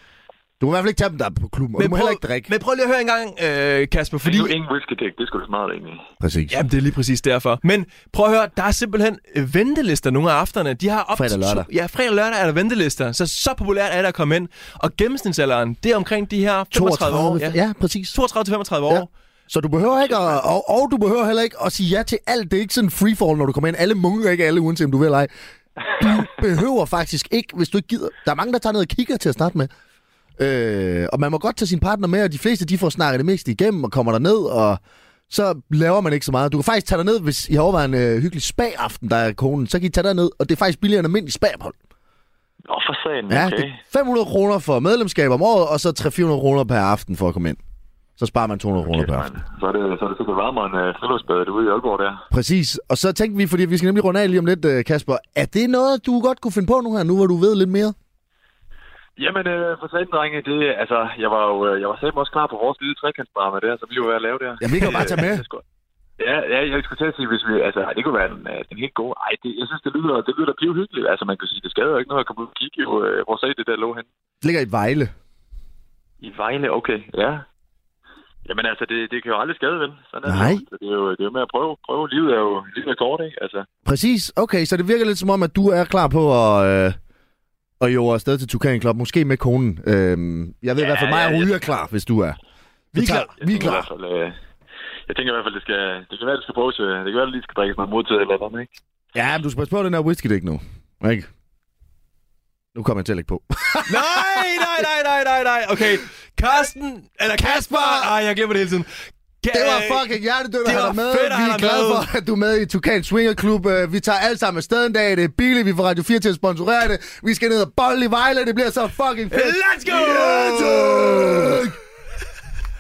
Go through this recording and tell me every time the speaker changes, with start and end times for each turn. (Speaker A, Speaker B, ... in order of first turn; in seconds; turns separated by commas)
Speaker A: 0.6-2.5, Speaker B: 1.8-4.6, Speaker C: 4.2-6.1, Speaker A: 6.2-6.6, Speaker B: 6.5-17.6, Speaker A: 11.1-11.7, Speaker A: 16.7-18.2, Speaker B: 18.1-19.1, Speaker A: 18.9-25.3, Speaker A: 25.9-29.7, Speaker A: 30.4-41.8, Speaker C: 42.7-43.8, Speaker A: 43.3-47.6, Speaker A: 48.2-49.3, Speaker C: 48.8-52.2, Speaker A: 52.3-58.0, Speaker C: 59.2-65.6, Speaker A: 64.6-65.5, Speaker B: 64.8-65.0, Speaker C: 66.2-74.1, Speaker A: 74.4-75.1, Speaker C: 76.2-77.5, Speaker C: 78.5-83.7, Speaker A: 80.2-80.6, Speaker A: 83.8-87.0, Speaker A: 87.8-92.4, Speaker C: 90.8-91.7, Speaker B: 92.9-93.8, Speaker A: 92.9-93.9, Speaker C: 93.4-94.4, Speaker C: 95.1-98.8, Speaker A: 99.2-101.3, Speaker A: 102.8-104.6, Speaker B: 103.9-108.9, Speaker A: 107.4-108.1, Speaker B: 109.4-110.1, Speaker A: 109.5-121.8, Speaker B: 110.6-112.1, Speaker B: 119.3-121.6